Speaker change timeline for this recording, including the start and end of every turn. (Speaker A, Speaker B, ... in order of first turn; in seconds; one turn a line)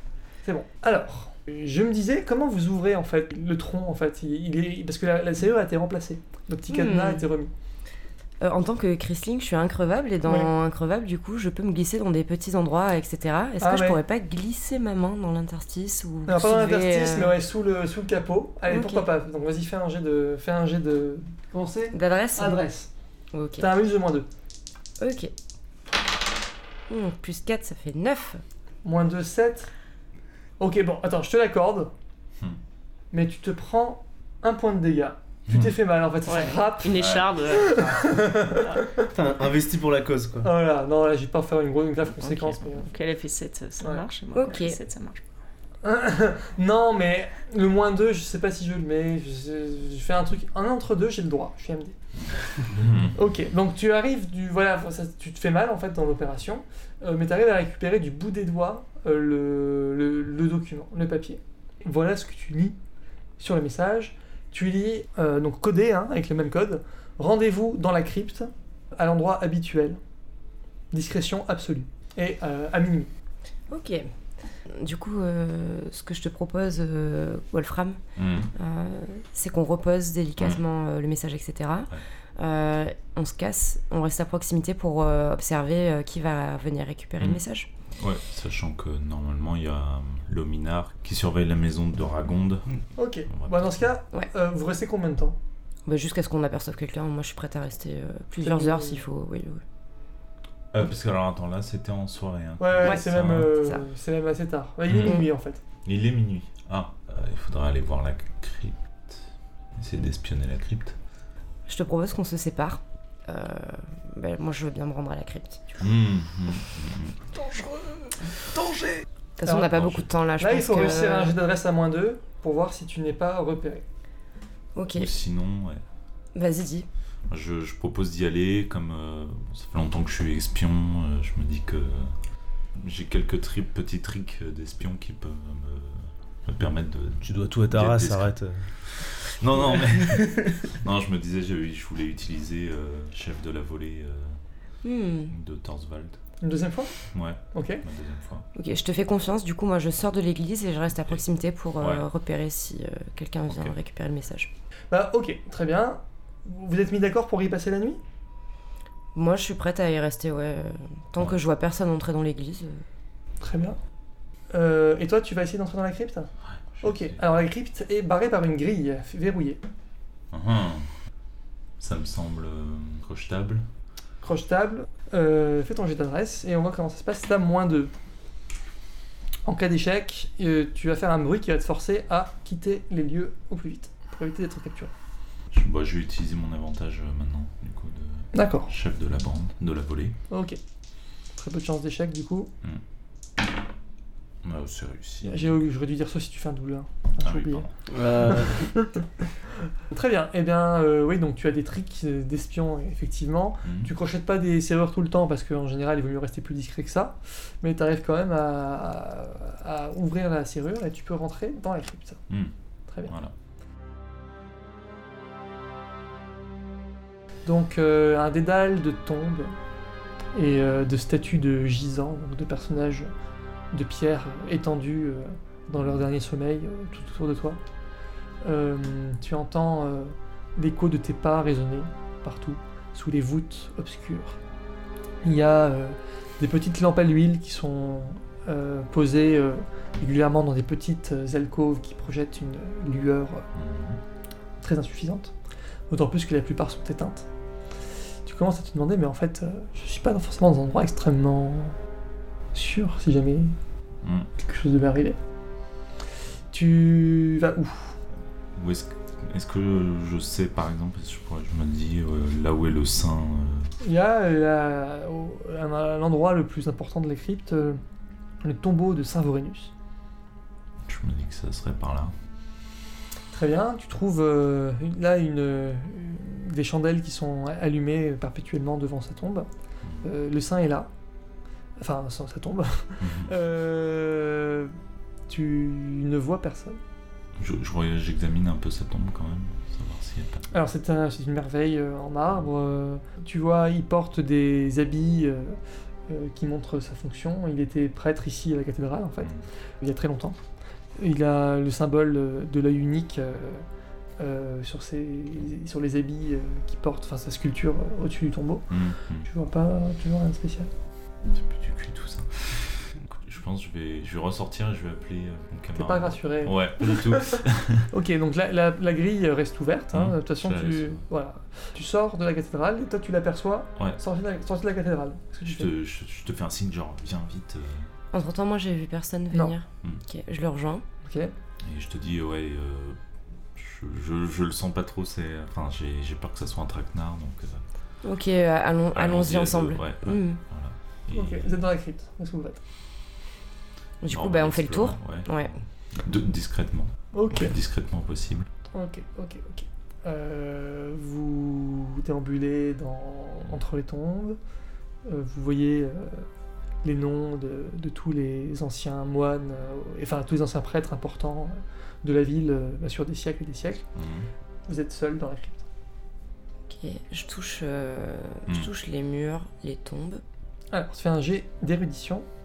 Speaker A: 0.4-7.5
Speaker B: 6.7-7.3
Speaker B: 8.4-17.3
Speaker A: 10.2-10.5
Speaker A: 13.6-14.0
Speaker A: 16.2-22.9
Speaker B: 18.7-19.1
Speaker B: 21.9-22.6
Speaker B: 23.3-23.6
Speaker A: 23.6-24.3
Speaker B: 25.0-25.3
Speaker B: 26.9-28.4
Speaker A: 28.8-29.7
Speaker A: 30.6-31.9
Speaker A: 33.1-39.1
Speaker C: 36.2-38.0
Speaker D: 36.9-37.4
Speaker E: 39.0-40.5
Speaker A: 40.4-42.9
Speaker C: 42.8-45.2
Speaker B: 44.3-44.8
Speaker A: 45.8-52.0
Speaker D: 52.1-53.3
Speaker A: 53.1-62.8
Speaker A: 63.4-70.0
Speaker A: 70.9-73.1
Speaker B: 73.7-74.1
Speaker B: 74.7-78.0
Speaker D: 78.2-78.5
Speaker B: 78.5-87.7
Speaker D: 87.9-93.8
Speaker A: 93.0-95.4
Speaker B: 95.8-99.6
Speaker A: 98.4-99.0
Speaker D: 100.7-103.5
Speaker A: 102.6-105.6
Speaker B: 102.8-103.8
Speaker D: 104.9-105.2
Speaker D: 105.8-109.2
Speaker D: 109.8-110.9
Speaker B: 111.7-115.8
Speaker D: 115.8-117.2
Speaker B: 119.4-121.4
Speaker A: 119.5-119.8
Speaker D: 119.7-120.1
Speaker A: 120.4-123.8
Speaker B: 124.7-125.1
Speaker D: 124.9-125.8
Speaker B: 126.3-126.9
Speaker D: 127.3-132.1
Speaker D: 132.8-138.3
Speaker E: 137.2-138.6
Speaker D: 138.8-144.4
Speaker E: 139.7-140.6
Speaker B: 144.8-145.3
Speaker D: 145.3-146.2
Speaker A: 146.4-146.9
Speaker D: 147.1-148.5
Speaker A: 147.5-147.8
Speaker B: 148.5-154.5
Speaker D: 151.8-152.1
Speaker D: 153.5-153.8
Speaker A: 154.9-158.0
Speaker B: 159.1-162.8
Speaker A: 163.4-163.8
Speaker A: 164.5-166.3
Speaker D: 166.7-167.2
Speaker A: 166.8-169.6
Speaker D: 170.3-170.9
Speaker D: 171.8-173.6
Speaker A: 174.2-177.9
Speaker A: 179.4-184.9
Speaker D: 185.5-190.2
Speaker A: 188.3-188.7
Speaker A: 190.3-190.6
Speaker A: 191.3-192.5
Speaker D: 194.4-195.6
Speaker A: 195.2-199.0
Speaker D: 197.2-197.7
Speaker E: 197.9-198.7
Speaker A: 199.9-212.2
Speaker D: 203.6-203.9
Speaker A: 212.9-213.1
Speaker D: 213.1-213.3
Speaker A: 217.4-219.5
Speaker A: 220.3-223.1
Speaker A: 223.7-227.6
Speaker A: 228.4-234.4
Speaker A: 235.2-243.4
Speaker D: 243.5-244.0
Speaker A: 244.6-245.3
Speaker A: 245.9-247.3
Speaker A: 248.2-251.8
Speaker A: 252.5-253.5
Speaker D: 254.0-254.3
Speaker A: 254.4-255.2
Speaker A: 256.5-257.9
Speaker D: 258.5-263.7
Speaker A: 263.8-267.8
Speaker A: 268.4-269.7
Speaker D: 270.9-272.1
Speaker A: 273.3-279.5
Speaker A: 280.0-280.9
Speaker A: 281.8-284.8
Speaker D: 283.0-283.3
Speaker A: 285.3-286.8
Speaker D: 287.4-290.4
Speaker A: 290.5-300.4
Speaker A: 301.0-303.6
Speaker A: 304.2-310.7
Speaker D: 308.7-309.3
Speaker D: 311.3-317.9
Speaker A: 315.7-325.7
Speaker D: 319.9-321.0
Speaker D: 325.4-327.9
Speaker B: 328.1-330.8
Speaker A: 331.0-331.3
Speaker D: 331.6-333.0
Speaker D: 333.5-337.6
Speaker B: 338.0-340.4
Speaker D: 338.9-341.6
Speaker A: 341.1-342.6
Speaker B: 344.0-345.6
Speaker D: 344.1-348.5
Speaker A: 347.1-347.5
Speaker A: 348.7-354.4
Speaker A: 355.1-356.2
Speaker A: 356.8-363.8
Speaker D: 363.9-364.3
Speaker A: 364.7-365.6
Speaker B: 366.7-370.2
Speaker A: 370.7-372.2